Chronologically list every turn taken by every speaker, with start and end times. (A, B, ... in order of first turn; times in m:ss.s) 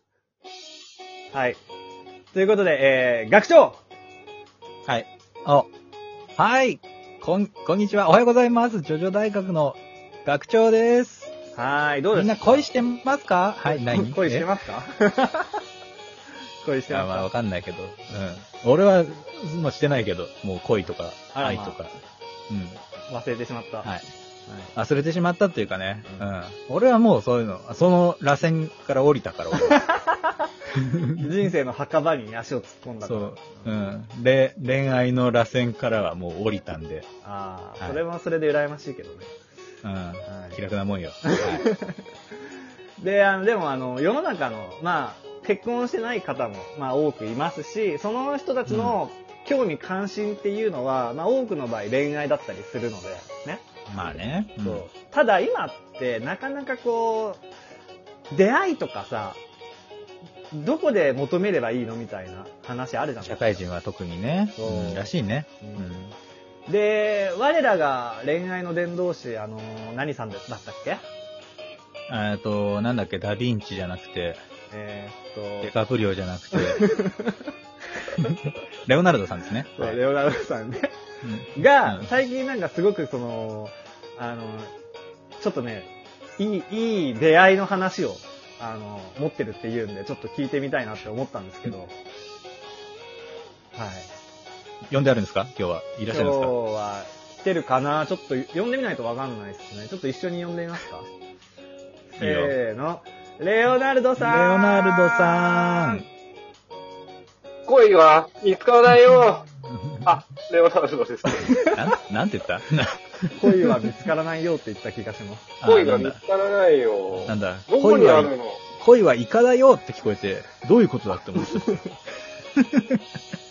0:01.3-0:01.6 A
0:02.3-0:03.8 A
0:04.9-0:05.7 B
0:06.4-0:11.3 B
0:11.5-0:12.7 A
0:12.1-0:14.5 B
0:13.6-0:15.6 A
0:16.6-0:17.3 A
0:16.9-0:21.9 B
0:21.3-0:21.8 A
0:22.5-0:22.8 B
0:23.1-0:23.9 A
0:24.5-0:24.7 A
0:24.8-0:29.8 B
0:26.0-0:26.3 A
0:31.0-0:31.3 B
0:31.2-0:33.9 A
0:33.0-0:37.1 B
0:37.2-0:39.3 A
0:39.8-0:41.7 B
0:40.3-0:40.6 A
0:41.2-0:42.0 A
0:43.0-0:53.7 A
0:48.7-0:49.0 B
0:53.9-0:54.8 B
0:54.6-0:57.4 A
0:58.3-0:59.4 A
1:00.5-1:03.6 A
1:03.2-1:06.2 B
1:04.6-1:06.0 A
1:06.7-1:11.0 A
1:12.1-1:14.4 B
1:14.7-1:15.7 A
1:15.6-1:16.9 B
1:16.5-1:18.5 A
1:18.9-1:20.0 B
1:19.7-1:20.9 A
1:21.2-1:22.1 B
1:21.6-1:24.7 A
1:25.4-1:31.9 A
1:33.8-1:34.1 A
1:34.9-1:36.5 B
1:36.1-1:41.1 A
1:42.2-1:46.0 A
1:42.2-1:42.6 B
1:44.2-1:46.1 B
1:47.7-1:49.5 C
1:50.0-1:51.7 C
1:51.4-1:51.7 A
1:51.6-1:53.9 B
1:53.4-1:55.5 A
1:55.6-1:56.2 B
1:55.6-1:58.6 C
1:57.3-2:01.8 B
2:02.6-2:03.0 B